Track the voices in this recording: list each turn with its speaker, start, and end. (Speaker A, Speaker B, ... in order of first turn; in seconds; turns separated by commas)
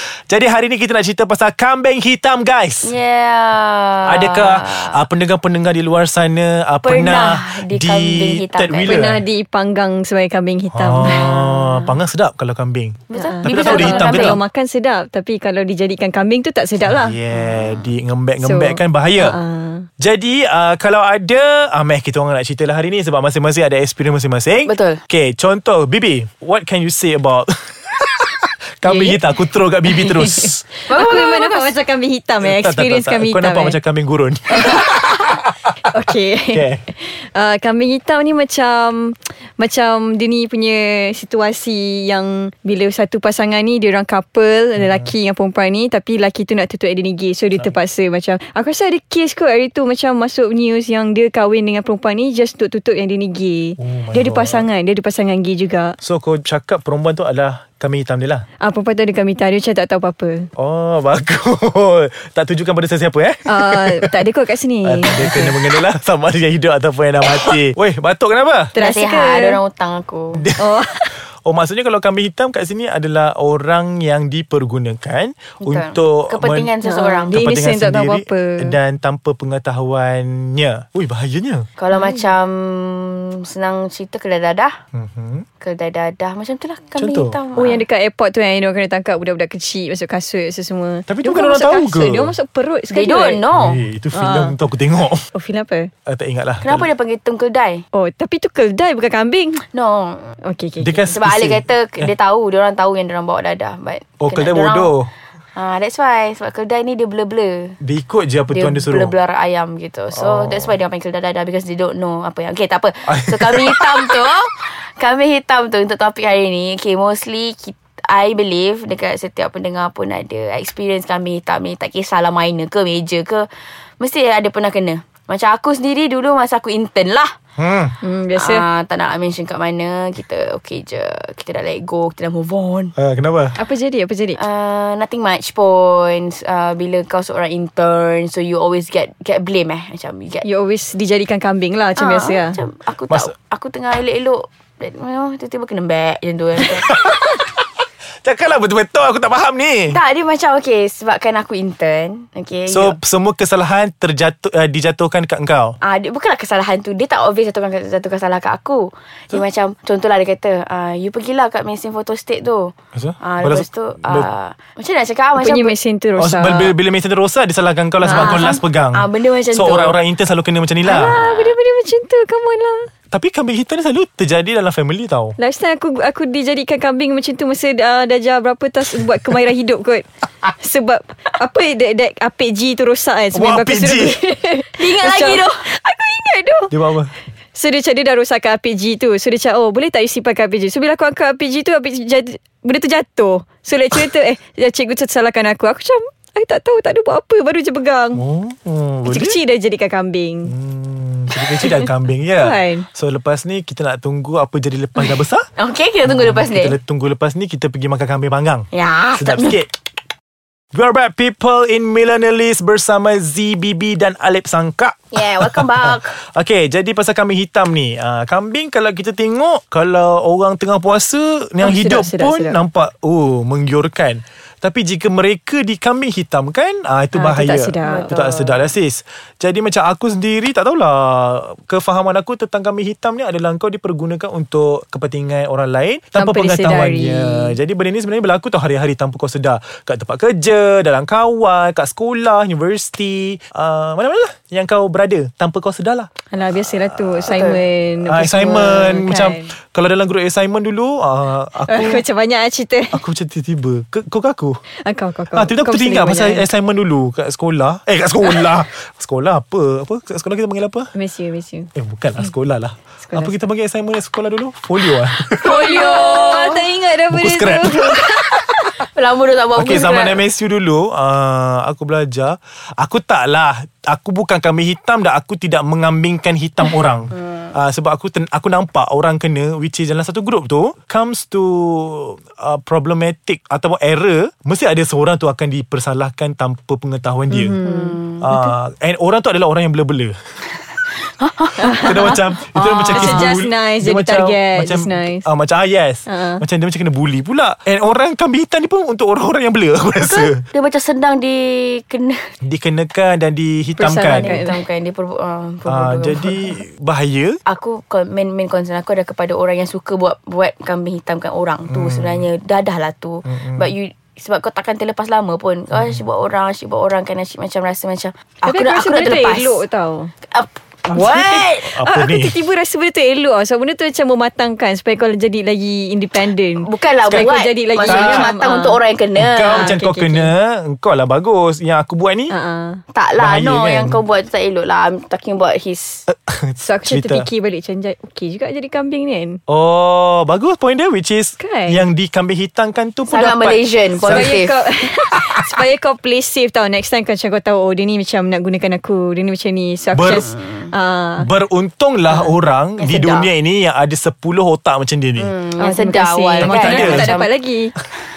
Speaker A: 0.3-3.0, Speaker B: 2.8-5.0, Speaker A: 4.1-9.2, Speaker B: 6.8-9.1, Speaker C: 8.9-11.3, Speaker A: 10.7-14.4, Speaker B: 11.0-11.9, Speaker B: 13.1-14.4, Speaker C: 13.2-17.2, Speaker A: 16.8-19.4, Speaker B: 17.5-17.9, Speaker C: 18.4-19.9, Speaker A: 20.0-30.6, Speaker B: 24.7-25.0, Speaker C: 28.9-29.2, Speaker C: 29.9-33.8, Speaker B: 30.9-31.7, Speaker A: 32.4-35.5, Speaker C: 34.5-34.9, Speaker C: 35.8-56.0, Speaker A: 36.5-36.8, Speaker A: 44.8-45.1, Speaker A: 53.8-54.7, Speaker A: 56.0-58.4, Speaker C: 58.6-60.5, Speaker A: 60.6-64.2, Speaker C: 63.5-65.8, Speaker A: 64.8-68.7, Speaker C: 68.7-69.6, Speaker B: 68.8-70.4, Speaker A: 70.3-70.7, Speaker C: 70.6-71.1, Speaker A: 71.3-76.7, Speaker B: 75.6-77.4, Speaker C: 76.8-78.8, Speaker A: 77.3-81.7, Speaker B: 81.8-84.7, Speaker C: 81.9-82.3, Speaker A: 84.9-85.5, Speaker B: 85.6-87.8, Speaker A: 87.0-87.4, Speaker C: 87.6-93.4, Speaker A: 91.1-92.3, Speaker B: 92.9-93.8, Speaker A: 93.5-95.3, Speaker C: 94.1-94.6, Speaker C: 95.3-95.9, Speaker A: 96.1-96.9, Speaker B: 96.6-97.8, Speaker C: 97.9-99.6, Speaker B: 99.7-100.4, Speaker C: 100.4-101.1, Speaker A: 100.8-102.1, Speaker B: 101.1-104.9, Speaker A: 104.2-105.1, Speaker B: 105.6-107.8, Speaker A: 107.8-109.2, Speaker B: 108.5-123.5, Speaker A: 110.1-110.7, Speaker A: 113.1-114.2, Speaker B: 124.0-127.3, Speaker A: 127.6-128.0, Speaker C: 128.0-128.7, Speaker B: 128.4-132.9, Speaker A: 133.0-133.6, Speaker C: 133.6-134.4, Speaker B: 134.4-140.4, Speaker C: 140.4-142.6, Speaker B: 142.0-146.9, Speaker A: 146.6-147.5, Speaker A: 148.2-150.0, Speaker B: 149.9-153.0, Speaker A: 152.7-155.8, Speaker B: 155.8-165.7, Speaker A: 162.9-164.3, Speaker C: 165.4-166.8, Speaker A: 166.2-171.2, Speaker C: 168.0-168.5, Speaker B: 168.1-170.0, Speaker B: 170.9-171.5, Speaker C: 170.9-172.9, Speaker A: 173.1-175.4, Speaker C: 175.4-186.7, Speaker A: 183.3-184.2, Speaker B: 184.8-185.6, Speaker A: 186.7-187.1, Speaker C: 187.6-198.2, Speaker A: 198.2-199.4, Speaker C: 199.1-200.5, Speaker A: 200.5-205.5, Speaker C: 202.4-202.9, Speaker B: 205.6-206.8, Speaker A: 206.1-209.7, Speaker B: 208.7-209.6, Speaker A: 210.7-246.1, Speaker B: 215.1-216.2, Speaker C: 221.6-222.6, Speaker C: 227.2-228.2, Speaker B: 227.8-228.6, Speaker C: 236.2-237.6, Speaker C: 246.3-249.5, Speaker A: 247.2-247.4, Speaker B: 247.3-247.6, Speaker A: 248.1-252.0, Speaker C: 251.7-253.0, Speaker A: 252.9-254.6, Speaker C: 254.8-256.4, Speaker A: 255.3-260.9, Speaker C: 260.9-261.7, Speaker A: 261.8-265.6, Speaker C: 263.0-263.3, Speaker B: 265.4-266.6, Speaker C: 265.4-268.6, Speaker A: 267.1-268.4, Speaker B: 268.8-270.2, Speaker A: 269.6-287.6, Speaker B: 277.1-277.5, Speaker B: 287.4-288.3, Speaker C: 287.6-288.6, Speaker A: 288.2-290.2, Speaker B: 291.2-293.3, Speaker C: 291.6-292.2, Speaker A: 291.7-300.4, Speaker C: 292.9-295.3, Speaker C: 296.1-296.4, Speaker B: 300.0-302.2, Speaker A: 302.4-304.4, Speaker C: 303.8-304.6, Speaker B: 304.2-306.6, Speaker A: 305.7-307.4, Speaker B: 307.5-319.6, Speaker A: 311.7-312.3, Speaker A: 313.3-313.7, Speaker A: 315.7-316.0, Speaker C: 318.5-320.1, Speaker B: 320.3-321.7, Speaker A: 320.9-322.4, Speaker C: 321.8-328.8, Speaker B: 326.6-329.7, Speaker A: 327.1-327.3, Speaker A: 327.9-328.3, Speaker A: 329.2-332.3, Speaker C: 329.5-330.3, Speaker C: 332.3-332.8, Speaker B: 332.9-336.1, Speaker A: 333.2-334.0, Speaker A: 336.1-337.3, Speaker C: 336.6-339.4, Speaker A: 339.5-344.4, Speaker C: 341.4-341.8, Speaker B: 343.1-344.5, Speaker C: 344.1-351.3, Speaker A: 349.9-350.2, Speaker B: 350.2-350.7, Speaker A: 351.2-355.3, Speaker B: 352.8-353.3, Speaker B: 355.2-357.3, Speaker C: 355.6-357.7, Speaker A: 356.4-357.1